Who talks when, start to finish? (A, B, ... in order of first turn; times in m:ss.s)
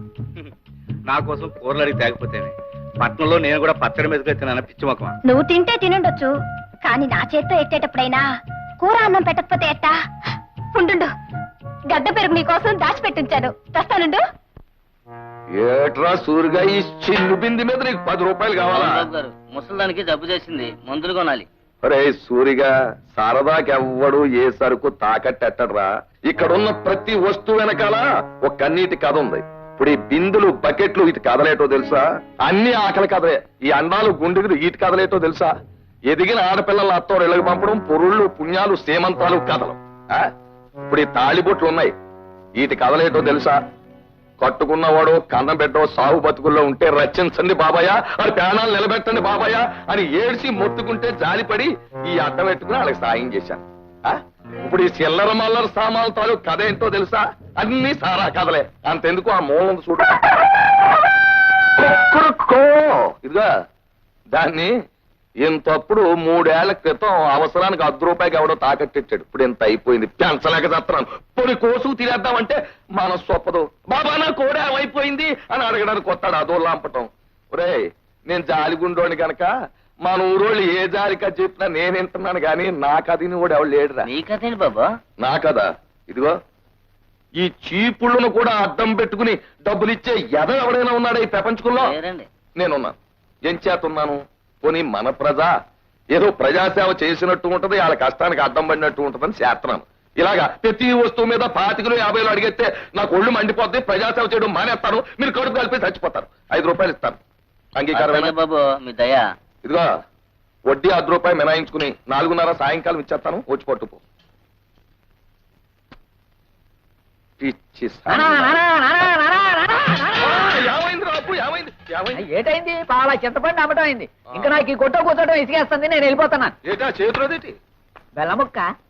0:01.1-0:05.1 A
0:05.3-0:06.3 B
0:06.8-0:08.2 B
0:08.8-0:09.9 B
0:10.7-0:11.1 B
0:11.9-0:14.2 B
0:15.6-0:19.0 C
0:18.7-0:21.4 D
0:21.8-0:35.5 C
0:36.1-0:40.3 C
0:40.9-0:41.9 C
0:42.6-0:43.6 C
0:44.4-1:00.4 C
1:01.8-1:03.5 C
1:04.3-1:04.7 C
1:05.4-1:17.8 C
1:18.3-1:19.5 C
1:20.0-1:24.1 C
1:24.1-1:24.9 D
1:25.2-1:26.3 C
1:27.4-1:32.0 C
1:31.8-1:32.3 D
1:32.6-1:35.5 C
1:36.1-1:47.2 C
1:47.8-1:48.3 C
1:47.9-1:49.2 D
1:50.7-1:54.0 C
1:57.4-1:58.6 C
1:58.1-2:00.6 E
2:00.2-2:02.2 C
2:02.2-2:06.5 E
2:06.6-2:07.6 C
2:08.2-2:08.7 E